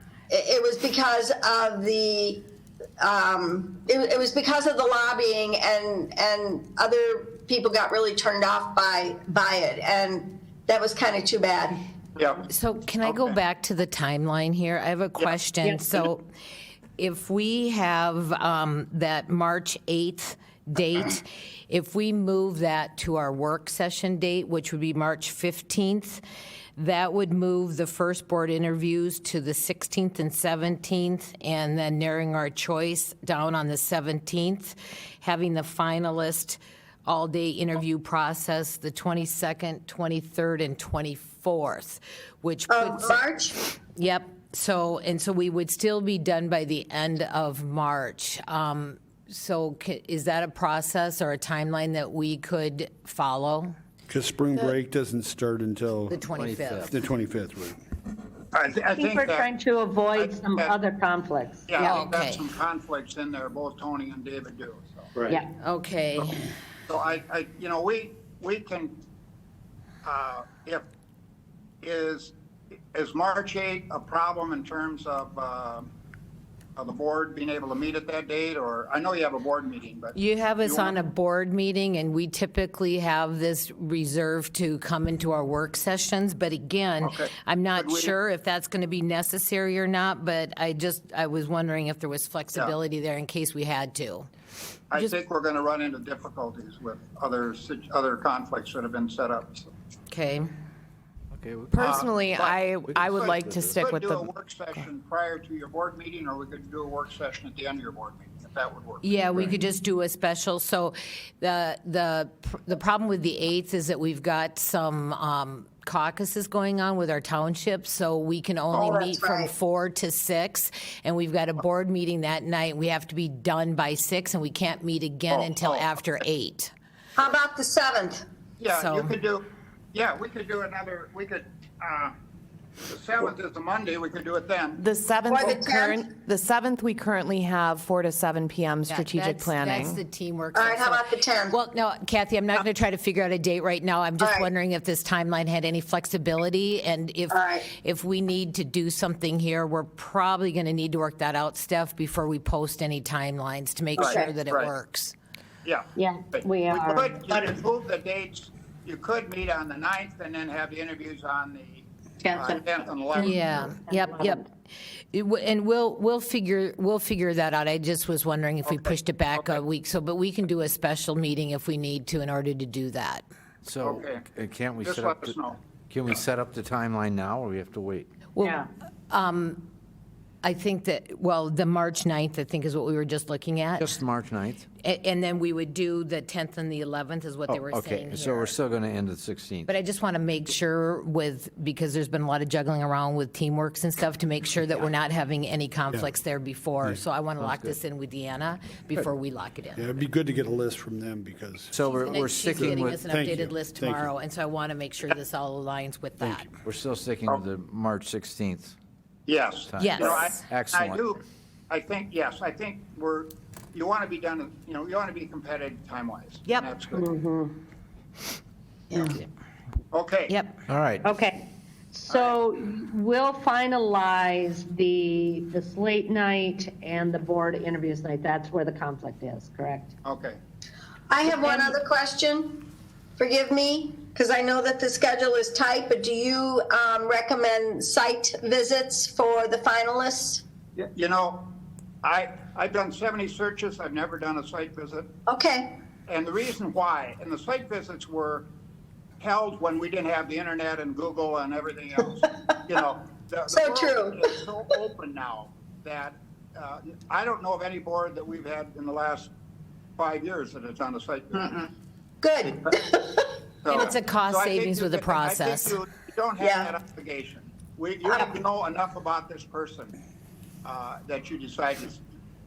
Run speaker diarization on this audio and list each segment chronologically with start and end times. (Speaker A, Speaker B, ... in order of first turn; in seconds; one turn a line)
Speaker A: 0.3-2.5
Speaker A: 3.0-11.8
Speaker B: 12.2-12.5
Speaker C: 12.5-16.2
Speaker B: 13.0-13.4
Speaker B: 15.2-16.1
Speaker C: 17.0-26.2
Speaker C: 26.8-43.4
Speaker A: 42.7-43.6
Speaker C: 44.0-53.8
Speaker D: 54.1-56.2
Speaker C: 56.1-57.0
Speaker E: 56.3-56.9
Speaker D: 56.9-57.8
Speaker B: 58.5-59.5
Speaker F: 58.9-62.0
Speaker B: 60.1-60.8
Speaker B: 61.7-65.1
Speaker C: 61.8-62.4
Speaker C: 65.6-66.4
Speaker B: 66.9-68.9
Speaker B: 70.0-70.8
Speaker B: 71.8-72.3
Speaker B: 72.9-75.9
Speaker B: 76.8-81.0
Speaker C: 80.1-94.3
Speaker B: 87.0-88.1
Speaker B: 94.9-99.7
Speaker C: 100.1-100.5
Speaker E: 101.4-102.1
Speaker G: 101.7-104.3
Speaker B: 101.8-109.5
Speaker E: 102.9-103.8
Speaker C: 109.0-126.7
Speaker A: 118.7-119.5
Speaker B: 125.3-125.9
Speaker A: 127.2-128.2
Speaker B: 128.6-132.1
Speaker C: 128.7-129.1
Speaker B: 132.9-134.8
Speaker G: 134.8-140.0
Speaker A: 135.3-136.2
Speaker C: 138.9-155.1
Speaker A: 140.5-141.6
Speaker A: 144.2-144.5
Speaker A: 147.3-147.7
Speaker B: 154.0-154.7
Speaker B: 155.6-163.7
Speaker F: 155.9-157.2
Speaker C: 163.2-164.5
Speaker F: 163.9-164.4
Speaker C: 165.1-173.2
Speaker B: 168.7-169.6
Speaker E: 173.6-175.4
Speaker B: 173.8-174.2
Speaker B: 174.8-175.6
Speaker E: 175.9-178.1
Speaker F: 178.4-178.7
Speaker C: 179.1-179.7
Speaker C: 180.4-183.9
Speaker E: 183.8-184.6
Speaker C: 184.8-188.5
Speaker E: 187.5-189.7
Speaker C: 189.7-200.0
Speaker E: 197.4-197.8
Speaker D: 199.8-201.8
Speaker E: 201.7-203.0
Speaker C: 201.8-206.5
Speaker D: 202.5-204.1
Speaker E: 206.6-208.8
Speaker B: 209.2-217.1
Speaker E: 209.7-211.0
Speaker C: 209.8-210.4
Speaker F: 216.9-217.5
Speaker C: 218.9-219.2
Speaker B: 219.9-220.3
Speaker C: 220.3-220.6
Speaker E: 220.7-221.0
Speaker F: 221.0-229.9
Speaker B: 222.1-222.4
Speaker B: 230.0-230.4
Speaker A: 231.1-240.4
Speaker F: 231.2-231.8
Speaker B: 240.8-241.4
Speaker B: 242.0-245.1
Speaker A: 245.3-245.7
Speaker B: 246.1-248.5
Speaker B: 249.2-259.3
Speaker A: 253.5-254.3
Speaker B: 260.0-261.6
Speaker A: 262.2-263.3
Speaker B: 263.6-269.9
Speaker C: 263.7-265.8
Speaker A: 266.4-266.7
Speaker A: 268.0-268.3
Speaker B: 270.6-272.0